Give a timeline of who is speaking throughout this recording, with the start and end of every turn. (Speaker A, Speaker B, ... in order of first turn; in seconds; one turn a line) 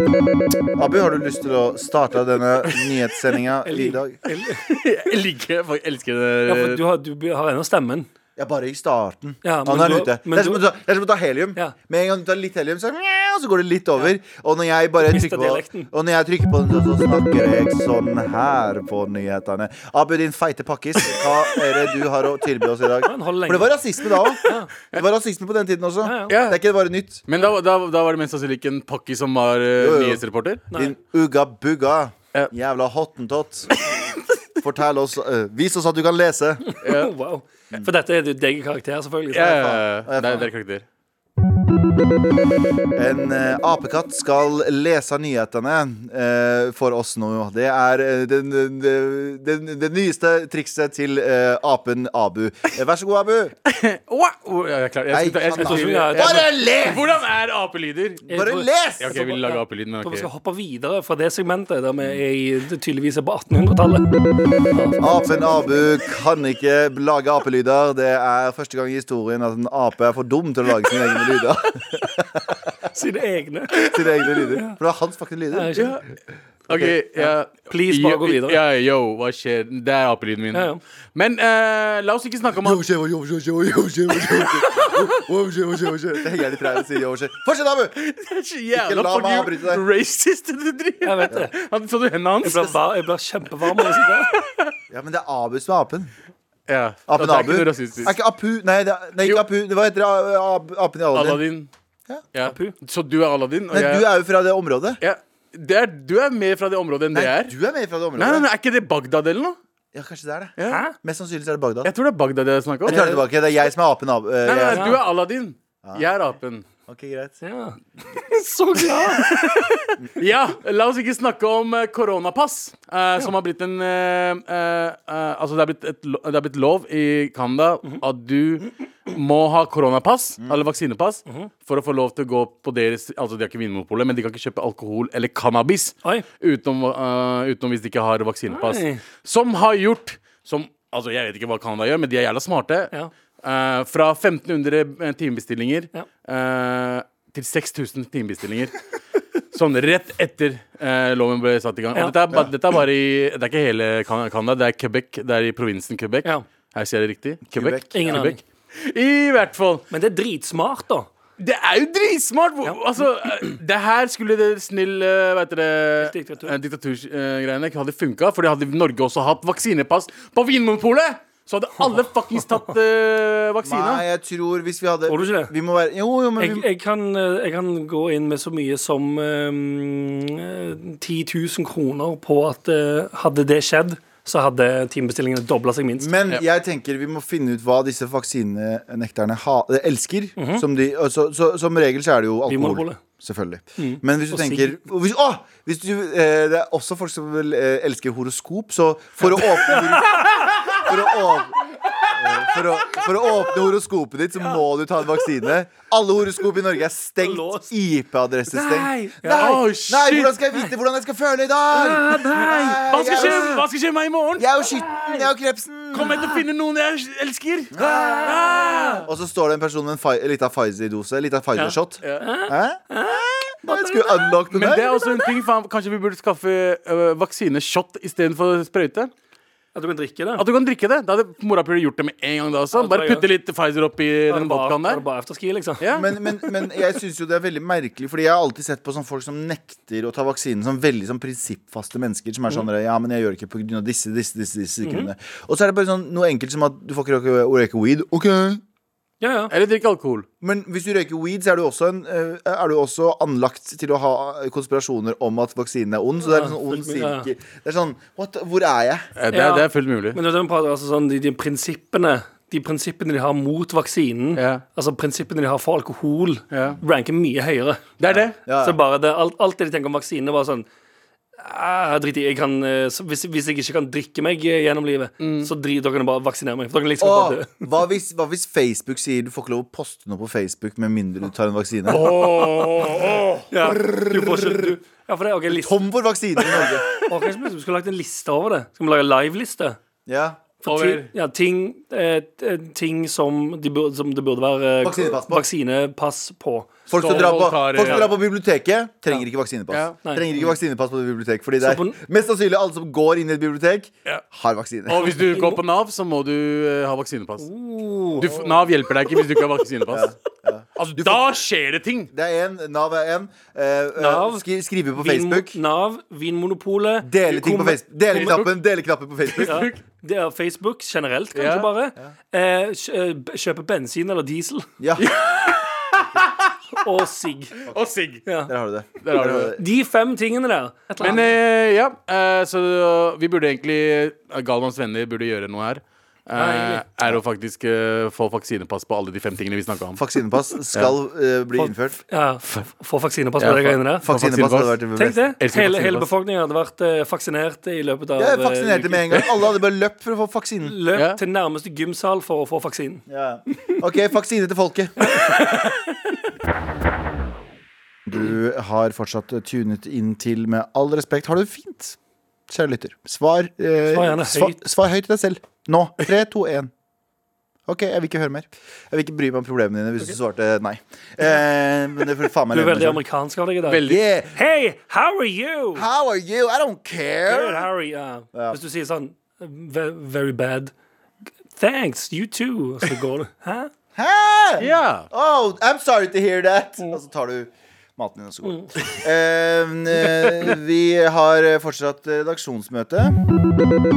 Speaker A: 0.7-4.2
Speaker B: 3.6-4.6
Speaker C: 4.6-6.8
Speaker B: 6.5-8.1
Speaker A: 8.4-27.2
Speaker B: 9.4-10.6
Speaker B: 15.0-15.9
Speaker B: 23.0-23.8
Speaker B: 24.4-24.7
Speaker B: 26.0-26.3
Speaker C: 26.3-26.6
Speaker C: 27.3-30.6
Speaker A: 29.8-33.8
Speaker C: 33.8-34.1
Speaker A: 34.6-36.7
Speaker B: 36.7-39.8
Speaker C: 36.8-37.1
Speaker C: 39.3-40.8
Speaker A: 39.5-40.5
Speaker A: 42.9-53.5
Speaker C: 53.7-58.2
Speaker A: 55.1-57.0
Speaker B: 55.6-56.5
Speaker A: 58.3-59.2
Speaker B: 58.3-64.1
Speaker C: 59.0-60.3
Speaker B: 64.7-65.0
Speaker A: 65.0-72.6
Speaker B: 72.9-74.8
Speaker A: 73.8-75.9
Speaker B: 75.5-76.0
Speaker C: 75.7-76.0
Speaker A: 76.7-77.3
Speaker C: 76.7-82.8
Speaker B: 77.7-78.6
Speaker B: 80.5-80.8
Speaker A: 82.6-88.0
Speaker C: 84.2-85.1
Speaker C: 88.0-92.8
Speaker A: 88.7-89.8
Speaker B: 91.0-91.5
Speaker B: 92.4-94.3
Speaker C: 94.3-94.7
Speaker A: 94.9-96.1
Speaker C: 96.7-98.1
Speaker A: 97.1-101.4
Speaker C: 101.1-101.7
Speaker C: 102.3-104.1
Speaker B: 102.4-102.8
Speaker A: 103.7-105.0
Speaker C: 105.0-107.5
Speaker A: 107.1-108.5
Speaker C: 108.2-109.6
Speaker A: 109.9-111.9
Speaker C: 110.6-110.8
Speaker B: 110.7-110.9
Speaker C: 111.8-113.0
Speaker A: 112.8-115.0
Speaker B: 112.9-113.2
Speaker C: 114.4-116.6
Speaker B: 114.7-115.0
Speaker A: 116.9-117.4
Speaker B: 117.4-119.5
Speaker C: 119.0-148.7
Speaker B: 138.5-139.0
Speaker C: 149.5-159.9
Speaker A: 157.5-158.2
Speaker B: 157.9-158.4
Speaker B: 159.9-161.1
Speaker C: 161.4-174.0
Speaker B: 166.0-166.5
Speaker A: 173.6-176.7
Speaker B: 175.1-175.5
Speaker B: 176.4-186.2
Speaker A: 186.0-201.6
Speaker B: 190.4-190.6
Speaker B: 192.5-193.0
Speaker B: 193.8-194.8
Speaker B: 199.6-200.4
Speaker A: 202.2-213.6
Speaker B: 207.2-207.7
Speaker B: 208.5-209.6
Speaker C: 209.3-210.3
Speaker B: 211.7-213.6
Speaker C: 212.9-214.6
Speaker A: 214.4-216.2
Speaker B: 214.9-215.2
Speaker C: 215.9-219.1
Speaker B: 216.1-216.4
Speaker A: 217.7-218.3
Speaker B: 217.8-219.0
Speaker A: 219.0-225.1
Speaker B: 221.5-224.3
Speaker C: 224.5-229.1
Speaker B: 229.7-230.4
Speaker C: 230.4-235.0
Speaker B: 232.7-233.2
Speaker B: 234.3-236.5
Speaker C: 235.8-236.1
Speaker A: 235.9-248.6
Speaker B: 244.8-245.1
Speaker B: 249.2-249.5
Speaker C: 249.5-250.2
Speaker A: 250.4-259.1
Speaker B: 256.2-257.3
Speaker C: 259.1-260.2
Speaker B: 259.3-267.9
Speaker C: 264.4-264.6
Speaker C: 266.5-266.8
Speaker C: 268.0-268.4
Speaker A: 268.4-268.8
Speaker B: 268.6-270.6
Speaker B: 271.4-277.6
Speaker C: 275.2-275.5
Speaker A: 277.0-282.6
Speaker C: 281.9-283.4
Speaker B: 283.5-285.8
Speaker A: 283.6-284.7
Speaker A: 285.5-286.9
Speaker B: 286.5-289.8
Speaker C: 286.6-286.8
Speaker A: 290.1-290.4
Speaker B: 290.6-298.1
Speaker C: 290.6-291.1
Speaker A: 294.8-295.4
Speaker A: 296.9-305.1
Speaker C: 296.9-298.1
Speaker C: 299.7-300.4
Speaker B: 301.6-302.0
Speaker C: 304.9-307.5
Speaker B: 305.0-305.6
Speaker B: 307.4-308.4
Speaker C: 308.2-310.1
Speaker A: 309.9-311.4
Speaker C: 310.8-312.1
Speaker A: 312.1-315.6
Speaker B: 314.0-314.4
Speaker B: 315.0-317.8
Speaker A: 317.0-319.7
Speaker C: 318.1-318.6
Speaker C: 319.2-319.8
Speaker B: 319.4-324.7
Speaker C: 321.3-321.7
Speaker A: 324.8-325.1
Speaker C: 325.0-326.5
Speaker B: 326.8-327.6
Speaker C: 327.7-328.2
Speaker B: 328.2-328.5
Speaker A: 328.5-329.6
Speaker C: 329.0-329.5
Speaker B: 329.6-331.2
Speaker C: 331.0-340.0
Speaker B: 336.4-336.8
Speaker A: 339.9-342.0
Speaker B: 341.6-344.1
Speaker C: 343.4-344.8
Speaker A: 344.0-345.2
Speaker B: 344.9-349.2
Speaker C: 345.4-346.1
Speaker A: 348.2-350.7
Speaker B: 350.6-353.0
Speaker A: 353.1-355.2
Speaker B: 355.1-355.8
Speaker A: 358.1-362.0
Speaker A: 362.5-366.7
Speaker B: 363.9-364.6
Speaker A: 367.7-373.0
Speaker B: 372.5-375.8
Speaker C: 373.7-374.0
Speaker A: 373.8-374.3
Speaker A: 375.7-377.7
Speaker B: 377.3-380.7
Speaker A: 378.3-378.6
Speaker B: 381.6-383.7
Speaker A: 383.9-393.2
Speaker C: 384.6-385.1
Speaker B: 388.4-388.7